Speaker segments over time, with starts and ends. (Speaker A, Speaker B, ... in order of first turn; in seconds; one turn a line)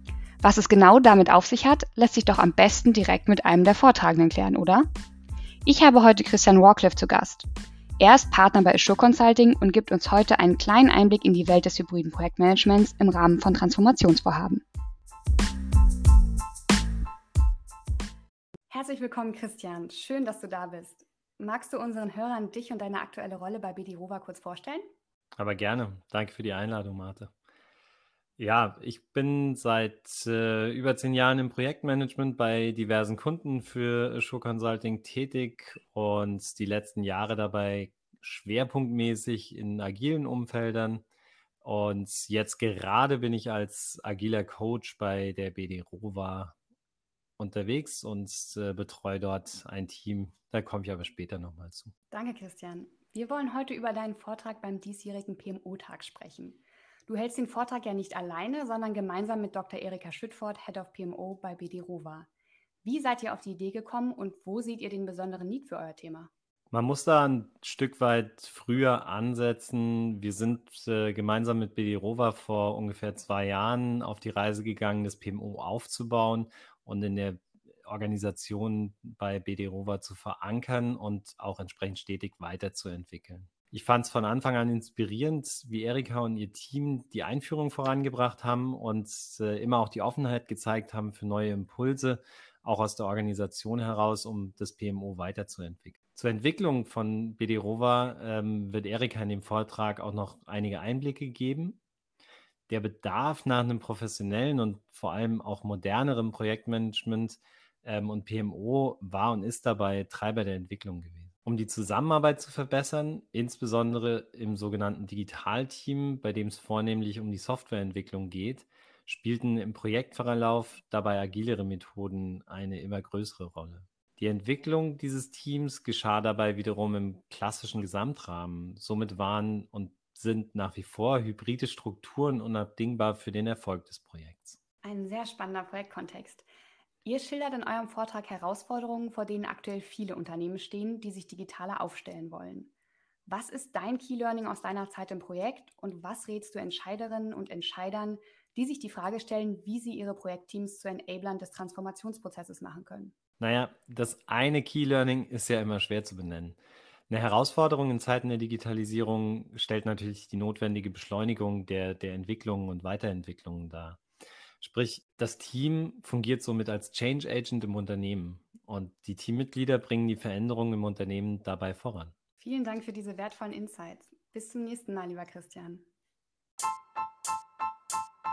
Speaker A: 0.4-4.9
Speaker A: 5.7-7.5
Speaker A: 8.0-14.6
Speaker A: 18.7-24.8
Speaker B: 25.4-27.3
Speaker B: 28.4-41.0
Speaker B: 41.6-46.5
Speaker B: 47.4-51.9
Speaker A: 52.1-62.3
Speaker A: 62.8-66.3
Speaker B: 66.7-101.8
Speaker B: 102.7-134.6
Speaker A: 134.8-136.5
Speaker A: 137.1-142.7
Speaker A: 143.3-153.1
Speaker B: 153.4-156.6
Speaker B: 157.1-164.0
Speaker B: 164.6-172.1
Speaker A: 172.4-175.9